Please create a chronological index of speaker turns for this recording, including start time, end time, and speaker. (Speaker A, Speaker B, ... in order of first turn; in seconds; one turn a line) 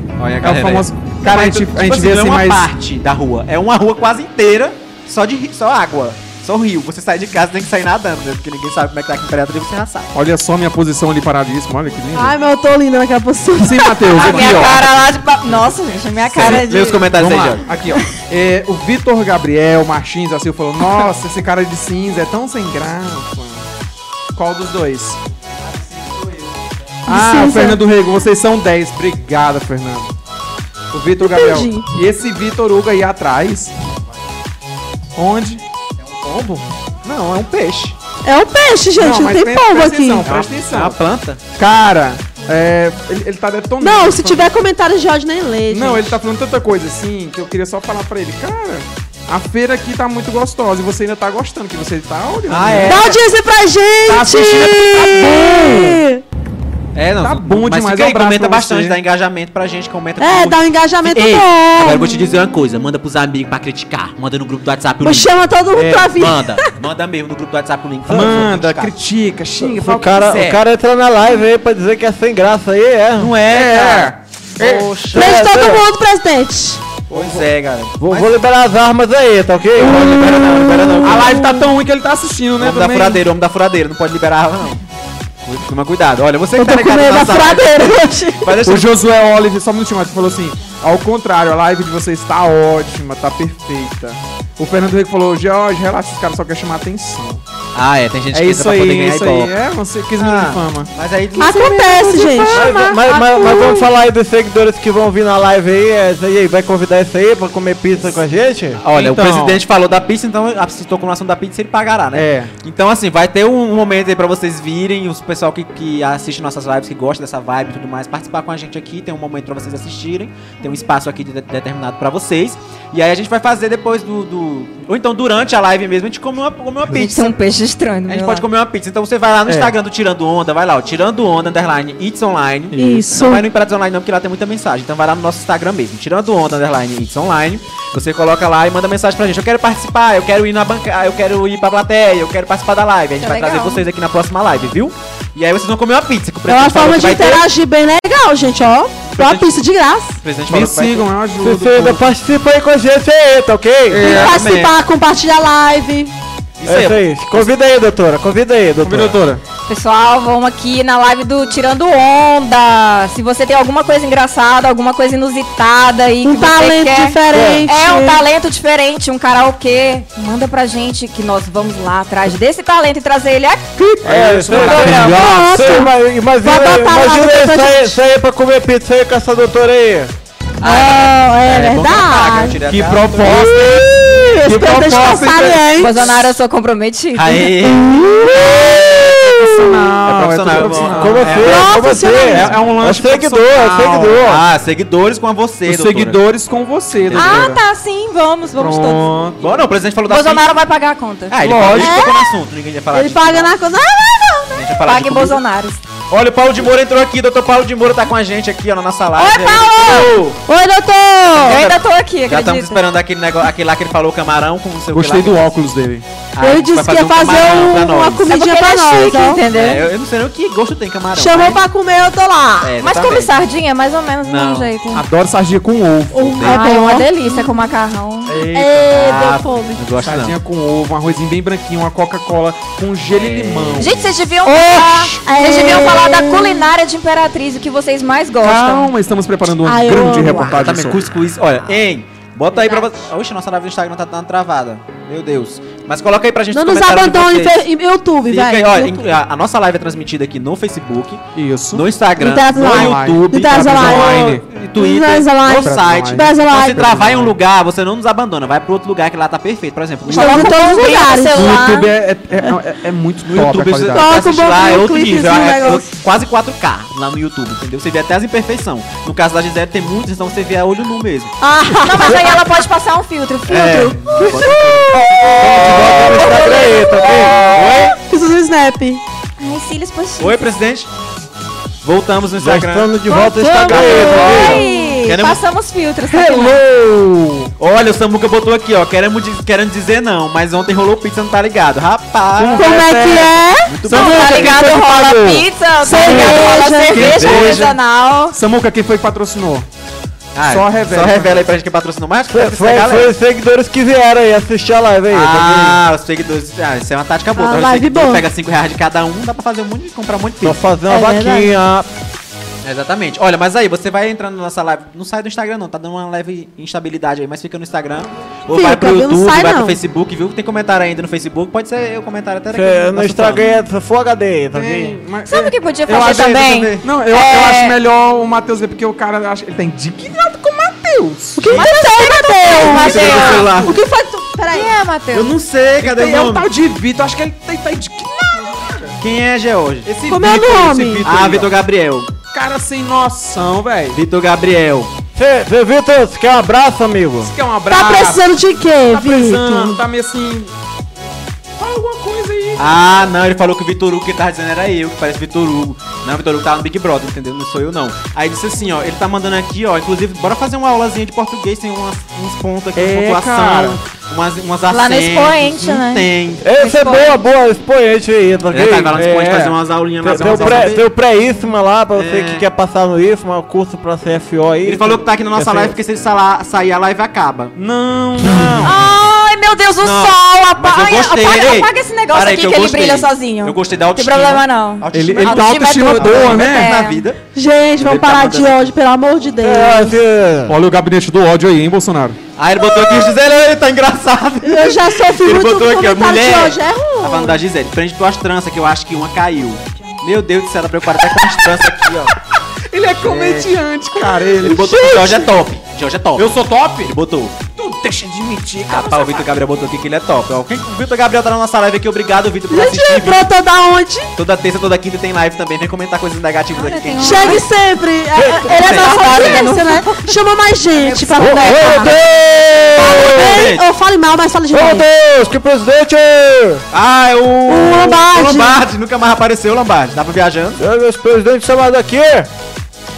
Speaker A: 0.2-10.1
Speaker B: 0.4-2.7
Speaker B: 10.1-12.4
Speaker C: 12.1-14.3
Speaker B: 13.6-14.9
Speaker D: 14.1-17.1
Speaker A: 14.2-15.1
Speaker A: 16.2-17.6
Speaker B: 16.4-23.7
Speaker B: 24.4-25.2
Speaker C: 27.1-27.8
Speaker B: 27.1-30.1
Speaker B: 30.9-33.7
Speaker C: 31.3-31.9
Speaker B: 35.2-35.6
Speaker A: 36.2-38.0
Speaker C: 38.2-40.3
Speaker B: 39.0-41.0
Speaker A: 40.2-41.4
Speaker B: 41.6-44.5
Speaker C: 43.8-46.1
Speaker B: 45.7-53.0
Speaker A: 52.5-53.2
Speaker C: 52.9-56.2
Speaker B: 54.1-56.0
Speaker A: 54.1-55.0
Speaker A: 57.0-65.3
Speaker B: 57.2-59.0
Speaker C: 60.2-62.3
Speaker C: 65.0-66.7
Speaker B: 65.7-66.2
Speaker A: 66.1-68.9
Speaker B: 68.1-70.5
Speaker E: 69.7-73.3
Speaker A: 70.0-70.6
Speaker A: 73.2-75.5
Speaker B: 73.5-75.0
Speaker C: 75.1-76.8
Speaker E: 75.1-75.9
Speaker A: 77.1-78.4
Speaker B: 77.1-77.5
Speaker E: 78.0-81.3
Speaker A: 79.8-81.4
Speaker B: 81.0-83.2
Speaker C: 81.2-81.7
Speaker A: 82.6-84.8
Speaker A: 85.4-89.0
Speaker C: 86.6-88.6
Speaker B: 88.6-97.4
Speaker A: 97.8-99.5
Speaker B: 98.3-100.9
Speaker A: 100.2-102.5
Speaker C: 101.4-103.9
Speaker B: 101.7-102.5
Speaker E: 102.5-108.8
Speaker A: 108.8-127.4
Speaker B: 108.9-109.6
Speaker B: 112.1-112.5
Speaker D: 126.9-128.5
Speaker A: 128.1-147.5
Speaker B: 129.5-129.8
Speaker B: 132.7-133.1
Speaker C: 132.8-133.5
Speaker D: 143.2-143.9
Speaker C: 146.5-150.2
Speaker A: 149.1-149.5
Speaker A: 150.2-151.1
Speaker B: 150.5-152.1
Speaker E: 151.4-154.1
Speaker B: 153.9-154.4
Speaker A: 154.0-154.8
Speaker C: 154.0-156.1
Speaker A: 156.6-157.5
Speaker E: 156.7-159.2
Speaker B: 158.8-159.4
Speaker D: 159.7-173.7
Speaker C: 166.2-168.2
Speaker E: 167.3-167.7
Speaker B: 174.0-175.4
Speaker E: 174.0-180.1
Speaker A: 174.5-175.1
Speaker C: 174.8-178.0
Speaker A: 180.6-183.7
Speaker C: 180.6-182.6
Speaker B: 182.6-185.9
Speaker C: 183.7-186.1
Speaker D: 185.7-187.7
Speaker A: 187.1-188.1
Speaker C: 187.9-189.8
Speaker B: 189.3-191.4
Speaker A: 190.0-192.6
Speaker E: 190.8-194.4
Speaker C: 191.4-192.5
Speaker B: 192.3-194.3
Speaker A: 194.2-196.2
Speaker B: 195.7-197.6
Speaker A: 197.0-197.5
Speaker D: 197.1-199.1
Speaker B: 198.6-199.4
Speaker A: 199.4-200.4
Speaker D: 200.1-201.4
Speaker A: 201.3-203.5
Speaker B: 201.4-202.1
Speaker C: 201.7-202.3
Speaker C: 202.9-204.6
Speaker A: 204.5-205.4
Speaker D: 204.8-205.8
Speaker A: 206.1-210.4
Speaker C: 209.2-211.6
Speaker A: 211.3-215.5
Speaker D: 211.4-212.8
Speaker B: 214.9-216.1
Speaker A: 216.3-218.3
Speaker C: 216.4-219.4
Speaker D: 218.3-219.9
Speaker A: 219.5-221.6
Speaker C: 221.1-222.8
Speaker A: 222.6-223.3
Speaker D: 222.8-225.0
Speaker A: 224.2-224.7
Speaker B: 224.9-226.4
Speaker C: 226.1-227.6
Speaker A: 226.3-226.6
Speaker D: 226.4-228.4
Speaker B: 228.3-228.9
Speaker C: 228.5-229.8
Speaker A: 228.9-230.4
Speaker B: 230.0-234.1
Speaker A: 233.1-233.8
Speaker D: 233.8-238.9
Speaker C: 234.4-236.7
Speaker B: 238.4-241.0
Speaker C: 239.7-240.6
Speaker A: 240.4-247.7
Speaker D: 242.5-243.0
Speaker C: 246.5-249.1
Speaker A: 248.3-260.6
Speaker B: 251.3-251.9
Speaker C: 252.2-257.0
Speaker B: 252.4-254.4
Speaker B: 255.6-257.4
Speaker C: 260.1-261.6
Speaker D: 260.1-261.9
Speaker B: 261.3-264.1
Speaker A: 263.3-271.3
Speaker C: 263.9-265.9
Speaker C: 271.4-272.4
Speaker D: 271.8-274.4
Speaker A: 273.5-278.0
Speaker C: 274.2-275.9
Speaker E: 275.4-277.6
Speaker D: 276.0-277.3
Speaker C: 277.3-279.0
Speaker D: 279.4-280.4
Speaker A: 280.2-280.9
Speaker A: 281.8-283.1
Speaker E: 282.4-284.6
Speaker D: 283.1-286.6
Speaker C: 283.1-285.0
Speaker A: 283.6-285.4
Speaker E: 286.1-287.5
Speaker A: 287.6-292.9
Speaker B: 292.4-293.4
Speaker C: 292.5-294.4
Speaker E: 292.8-293.1
Speaker A: 293.6-294.7
Speaker D: 293.9-298.4
Speaker E: 293.9-295.5
Speaker C: 295.8-297.1
Speaker B: 296.0-297.7
Speaker A: 297.0-297.8
Speaker B: 298.3-299.7
Speaker A: 300.3-303.1
Speaker B: 300.4-301.4
Speaker E: 302.3-305.8
Speaker A: 305.1-310.6
Speaker C: 307.4-308.2
Speaker E: 310.4-311.9
Speaker C: 310.9-311.6
Speaker A: 312.6-323.5
Speaker C: 318.5-319.8
Speaker E: 322.5-325.0
Speaker B: 324.5-331.6
Speaker D: 325.3-327.8
Speaker A: 325.9-326.9
Speaker C: 331.4-334.7
Speaker D: 331.5-333.7
Speaker A: 332.4-333.8
Speaker D: 334.5-335.3
Speaker A: 335.1-336.5
Speaker B: 335.8-339.0
Speaker A: 339.0-339.9
Speaker B: 339.9-341.6
Speaker C: 340.1-341.1
Speaker A: 341.0-342.1
Speaker B: 342.3-344.0
Speaker A: 343.9-344.9
Speaker E: 345.2-347.3
Speaker B: 347.2-348.3
Speaker C: 347.7-349.8
Speaker B: 348.9-350.5
Speaker B: 351.6-352.7
Speaker A: 352.6-366.4
Speaker B: 362.8-363.8
Speaker D: 364.7-367.2
Speaker E: 366.4-369.4
Speaker A: 368.5-370.9
Speaker B: 368.9-370.8
Speaker E: 370.0-375.7
Speaker A: 371.9-372.4
Speaker A: 374.6-377.6
Speaker B: 377.6-378.8
Speaker A: 378.2-378.8
Speaker D: 378.6-387.1
Speaker A: 379.8-387.2
Speaker B: 384.9-386.7
Speaker C: 387.3-390.0
Speaker A: 387.8-388.6
Speaker E: 389.4-390.6
Speaker B: 390.5-392.2
Speaker A: 392.4-402.1
Speaker C: 394.4-397.4
Speaker B: 402.7-405.3
Speaker A: 403.0-403.6
Speaker A: 404.3-407.4
Speaker B: 406.1-406.9
Speaker B: 407.6-409.3
Speaker A: 408.7-413.2
Speaker C: 412.5-414.1
Speaker A: 414.2-417.4
Speaker D: 416.6-417.5
Speaker C: 417.0-422.0
Speaker E: 418.2-418.5
Speaker A: 418.4-419.6
Speaker D: 418.5-422.0
Speaker E: 421.2-423.5
Speaker C: 422.8-424.9
Speaker A: 423.0-423.7
Speaker E: 424.5-426.6
Speaker A: 426.7-430.6
Speaker C: 427.5-428.6
Speaker E: 430.6-432.3